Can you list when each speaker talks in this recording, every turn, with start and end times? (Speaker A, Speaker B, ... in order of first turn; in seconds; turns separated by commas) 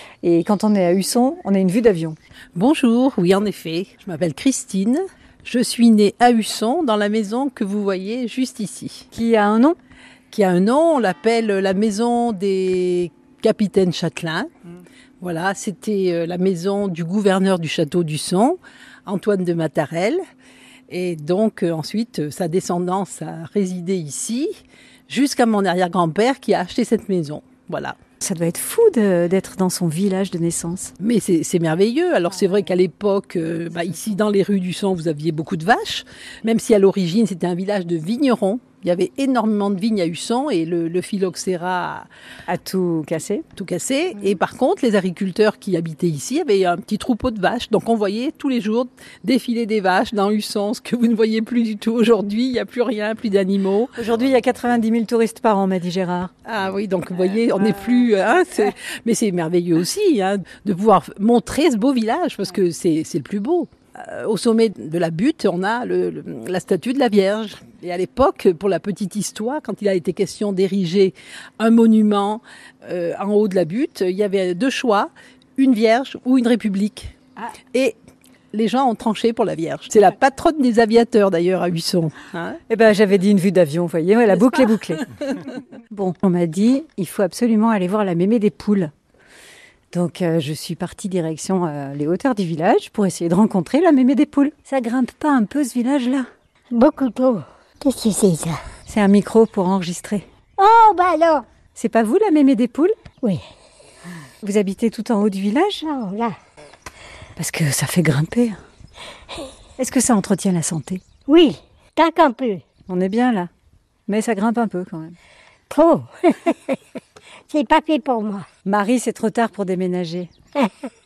Speaker A: 0.2-2.1, Speaker B: 2.5-9.1, Speaker A: 9.1-9.8, Speaker B: 10.3-14.5, Speaker B: 15.2-20.2, Speaker B: 20.9-24.5, Speaker B: 25.1-27.9, Speaker A: 28.2-30.9, Speaker B: 31.0-42.1, Speaker A: 42.5-43.4, Speaker B: 43.5-54.0, Speaker A: 54.0-56.3, Speaker B: 56.5-77.2, Speaker B: 78.5-82.6, Speaker A: 82.7-85.1, Speaker A: 85.9-88.9, Speaker A: 89.9-96.3, Speaker C: 96.7-98.6, Speaker A: 98.9-100.2, Speaker C: 100.6-101.4, Speaker A: 101.7-102.9, Speaker A: 104.4-105.9, Speaker C: 105.9-106.3, Speaker A: 107.4-108.6, Speaker A: 109.8-111.0, Speaker C: 111.3-112.6, Speaker A: 112.9-113.5, Speaker A: 114.1-115.2, Speaker C: 115.7-116.8, Speaker C: 117.5-118.5, Speaker A: 118.6-120.3